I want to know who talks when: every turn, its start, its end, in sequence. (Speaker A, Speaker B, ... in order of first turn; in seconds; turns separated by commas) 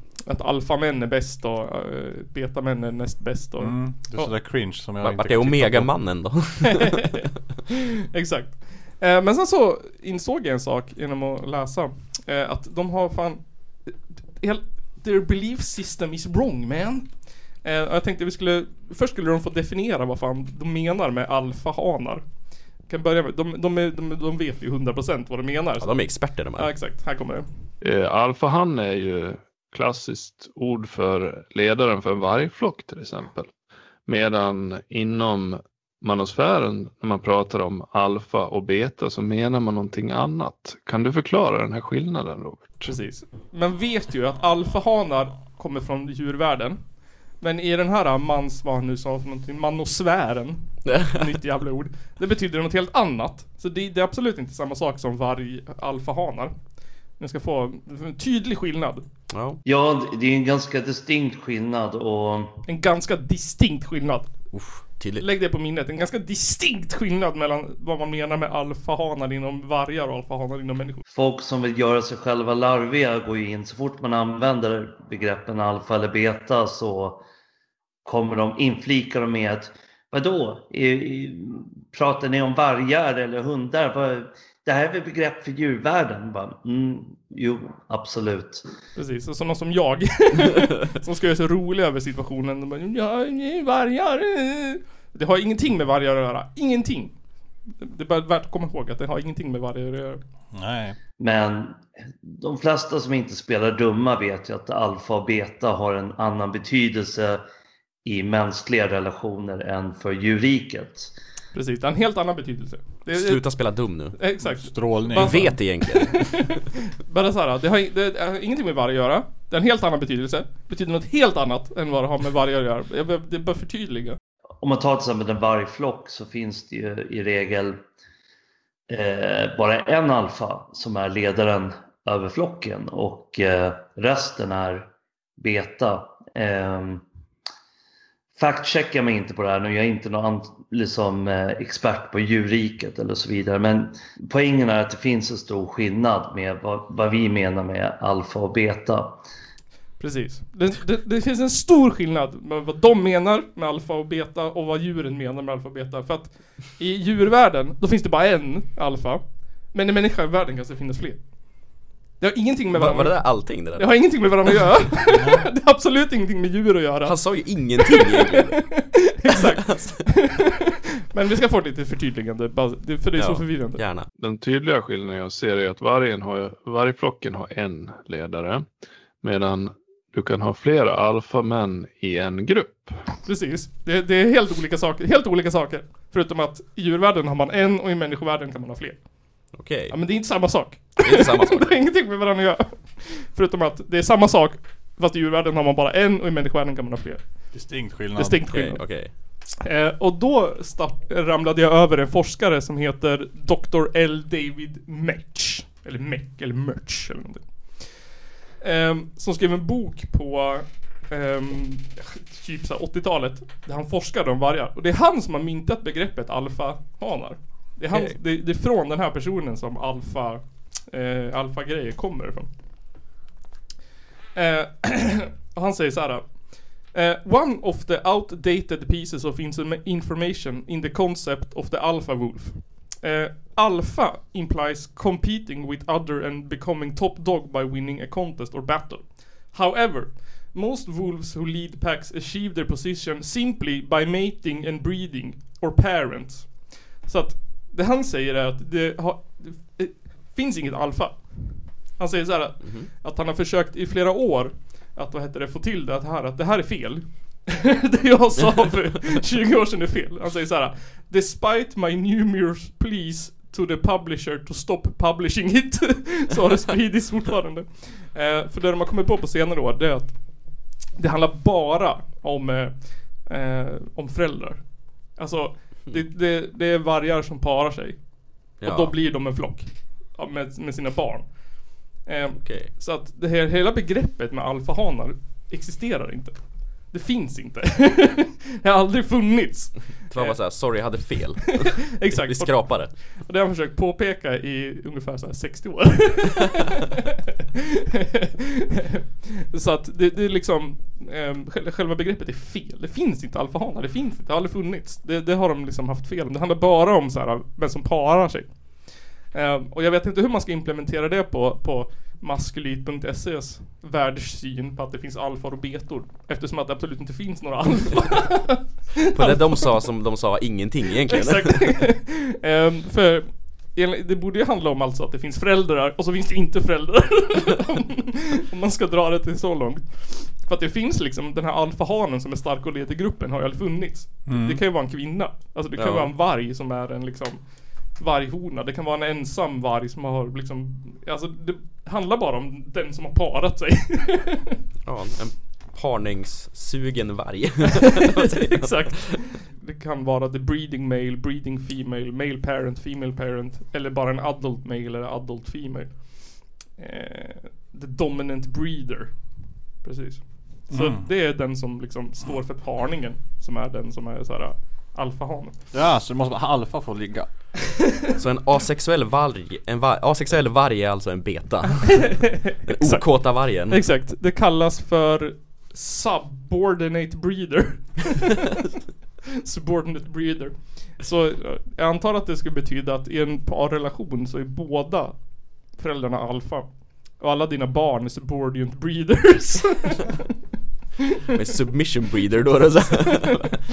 Speaker A: 0.2-4.3, Speaker B: 3.6-5.9, Speaker C: 5.0-7.1, Speaker A: 6.7-17.1, Speaker A: 17.6-22.2, Speaker A: 22.9-25.9, Speaker C: 25.8-26.7, Speaker A: 26.6-27.5, Speaker D: 27.8-33.5, Speaker D: 34.1-42.9, Speaker A: 42.8-46.8, Speaker A: 47.4-56.5, Speaker C: 50.9-51.1, Speaker A: 57.2-59.0, Speaker C: 59.3-59.6, Speaker E: 59.6-62.5, Speaker A: 62.7-64.3, Speaker C: 64.5-65.2, Speaker A: 65.2-71.0, Speaker E: 71.1-77.2, Speaker E: 78.0-88.7, Speaker A: 89.0-97.1, Speaker A: 97.7-100.2, Speaker B: 100.5-101.0, Speaker E: 101.2-107.4, Speaker E: 108.0-111.1, Speaker A: 111.5-113.4, Speaker C: 113.1-114.2, Speaker A: 114.1-116.5, Speaker B: 114.4-115.6, Speaker C: 115.1-116.5, Speaker A: 117.0-124.2, Speaker E: 124.6-127.8, Speaker E: 128.9-137.0, Speaker E: 138.3-149.2, Speaker A: 150.0-161.2, Speaker A: 162.2-167.2, Speaker C: 162.7-164.5, Speaker B: 165.1-165.4, Speaker C: 167.0-168.6, Speaker A: 167.8-173.8, Speaker C: 173.2-174.1, Speaker D: 174.2-178.7, Speaker D: 179.2-182.9, Speaker A: 183.2-189.0, Speaker C: 189.5-190.0, Speaker A: 189.9-197.2, Speaker C: 191.0-191.8, Speaker B: 197.5-198.4, Speaker A: 198.1-198.9, Speaker C: 198.5-199.1, Speaker A: 199.6-208.1, Speaker A: 208.6-222.5, Speaker C: 217.9-218.2, Speaker A: 224.3-270.1, Speaker C: 252.6-252.9, Speaker A: 270.9-278.0, Speaker A: 278.6-281.3, Speaker C: 278.6-278.9, Speaker A: 281.9-290.4, Speaker C: 282.4-282.7, Speaker C: 290.1-292.9, Speaker A: 291.9-296.9, Speaker A: 298.0-308.5, Speaker A: 309.3-319.7, Speaker C: 319.1-321.8, Speaker A: 321.1-337.4, Speaker B: 334.3-334.6, Speaker C: 335.8-336.1, Speaker A: 337.9-344.6, Speaker C: 344.9-349.2, Speaker A: 348.3-359.1, Speaker A: 359.8-365.5, Speaker B: 360.7-361.1, Speaker B: 365.7-367.3, Speaker C: 368.1-373.8, Speaker A: 371.8-378.5, Speaker A: 379.4-390.2, Speaker C: 391.3-393.6